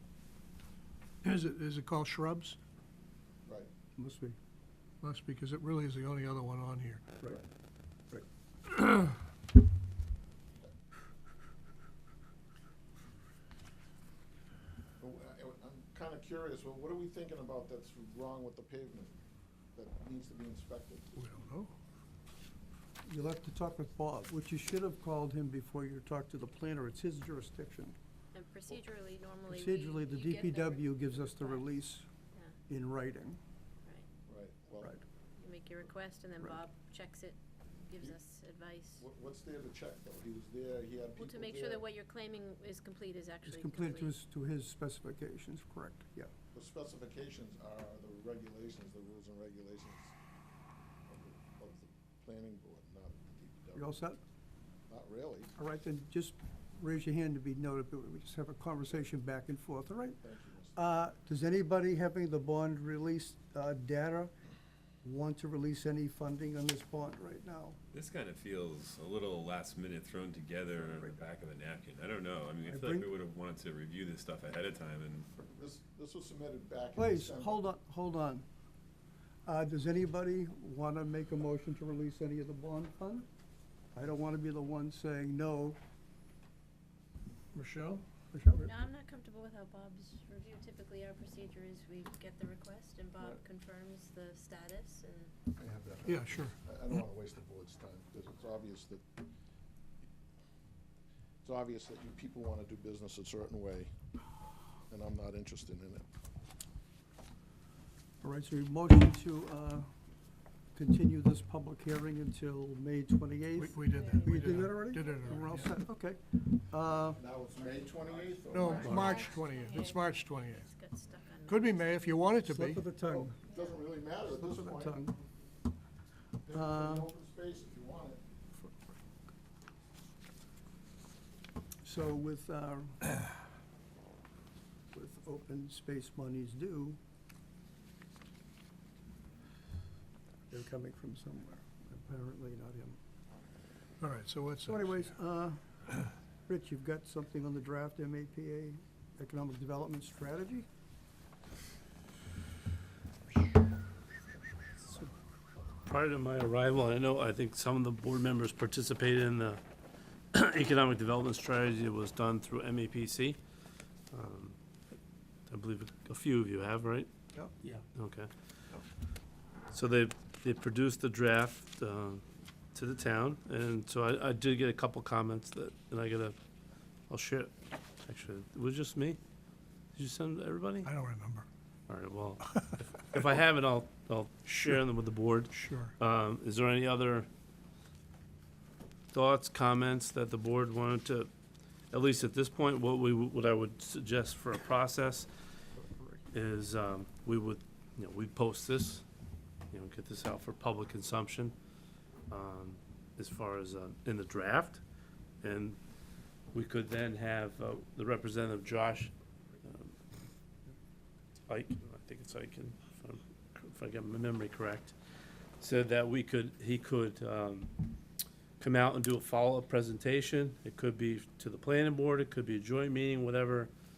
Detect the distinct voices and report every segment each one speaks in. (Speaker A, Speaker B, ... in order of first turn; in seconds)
Speaker A: 1.2-2.6, 5.0-7.1, 21.1-21.7, 87.5-88.0, 96.0-96.5, 113.6-115.7, 118.5-120.7, 121.5-122.9, 144.0-145.0, 180.8-181.4, 185.5-185.9
Speaker B: 4.0-4.4, 23.1-27.9, 29.5-32.0, 32.7-33.4, 43.4-46.3, 53.7-54.2, 55.5-64.3, 65.0-67.8, 72.7-73.1, 76.9-78.4, 79.5-83.3, 83.9-85.8, 88.3-88.7, 108.2-109.9, 110.7-117.2, 122.4-123.4, 124.2-125.2, 126.5-127.1, 131.8-133.4, 134.9-137.0, 140.5-143.0, 144.6-145.6, 146.5-150.7, 195.8-196.2
Speaker C: 15.0-19.2, 19.7-21.1, 34.2-35.0, 39.0-41.9, 46.5-50.1, 51.1-54.0, 54.9-55.5, 60.2-60.8, 75.4-77.6, 95.5-99.1, 101.4-103.9, 104.9-106.0, 117.1-119.3, 123.0-125.1, 126.4-128.2
Speaker D: 28.3-31.7, 35.4-39.0, 41.1-44.1, 88.6-95.3, 113.9-114.7, 117.6-122.1, 123.5-123.8
Speaker E: 67.9-75.3
Speaker F: 155.8-159.6, 160.3-163.4, 164.1-164.6, 165.5-167.1, 167.9-168.3, 169.7-172.2, 172.7-176.4, 177.1-177.5, 178.1-179.2, 179.9-180.9, 181.9-187.3, 189.1-191.3, 191.9-195.3, 196.3-199.1, 199.7-201.5, 202.3-204.8, 205.4-205.8, 206.5-209.1, 209.6-209.9, 211.5-214.9, 215.6-217.7, 218.6-223.7